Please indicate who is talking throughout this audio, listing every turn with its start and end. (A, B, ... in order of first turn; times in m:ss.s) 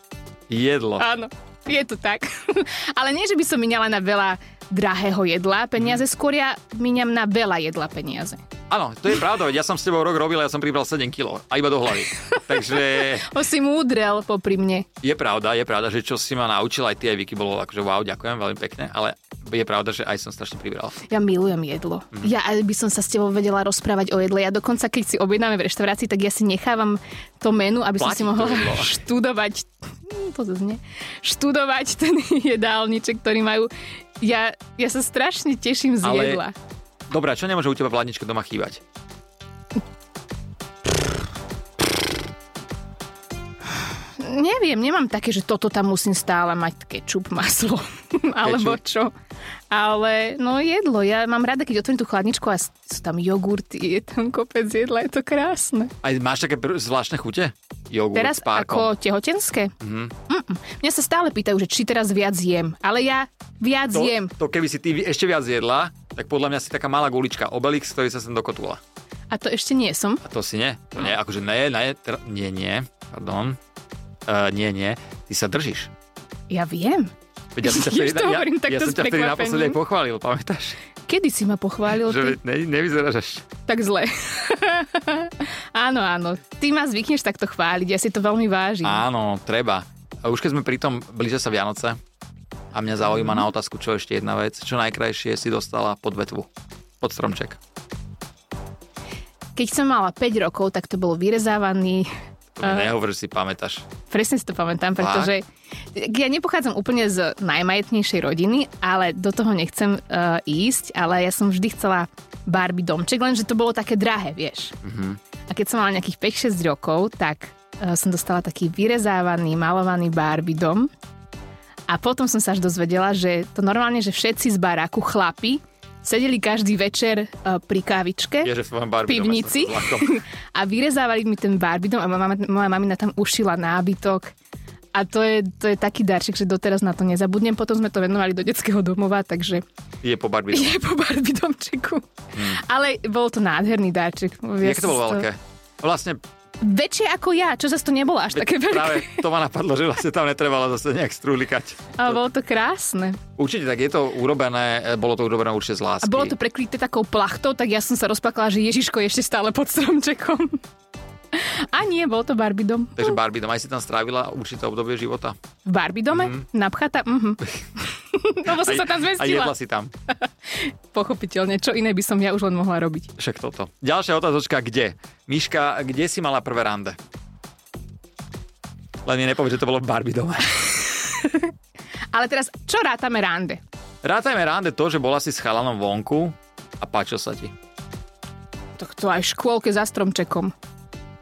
0:00.5-0:01.1 A
0:01.0-0:08.4 B
0:08.7-0:13.3 A
0:12.5-0:14.9 B
0:15.0-0:21.0 A
0:21.1-0:36.6 B
0:28.0-0:29.0 A
0:36.0-0:36.4 A
0:37.1-0:38.8 A
0:44.2-0:49.1 B
0:48.4-0:48.8 A
0:49.7-0:55.9 B
0:56.0-0:58.9 A
0:58.1-0:59.8 B
0:59.8-1:00.1 A
1:00.3-1:04.3 B
1:03.9-1:08.8 A
1:09.3-1:10.2 B
1:10.2-1:13.6 A
1:14.3-1:15.9 A
1:16.5-1:19.8 B
1:17.6-1:20.8 A
1:21.0-1:22.4 B
1:22.0-1:23.5 A
1:23.7-1:29.0 B
1:28.8-1:32.0 A
1:32.7-1:36.5 A
1:37.0-1:37.6 A
1:39.6-1:42.1 B
1:42.6-1:43.9 A
1:42.6-1:42.9 B
1:44.1-1:54.8 B
1:45.0-1:45.3 A
1:54.8-1:55.2 A
1:55.5-2:00.9 B
2:01.9-2:08.5 B
2:08.4-2:10.2 A
2:09.1-2:14.3 B
2:14.9-2:19.6 B
2:20.0-2:20.8 A
2:20.5-2:25.3 B
2:22.4-2:22.6 A
2:24.6-2:26.2 A
2:26.6-2:29.3 B
2:28.3-2:32.2 A
2:32.0-2:33.2 B
2:33.4-2:36.4 A
2:36.0-2:40.6 B
2:41.3-2:43.2 B
2:43.0-2:45.4 A
2:45.6-2:49.5 B
2:46.1-2:46.4 A
2:48.5-2:49.9 A
2:50.1-2:53.1 B
2:53.2-2:57.0 A
2:59.0-3:00.8 A
3:01.2-3:01.5 B
3:02.1-3:03.6 B
3:04.0-3:07.5 A
3:08.8-3:10.5 B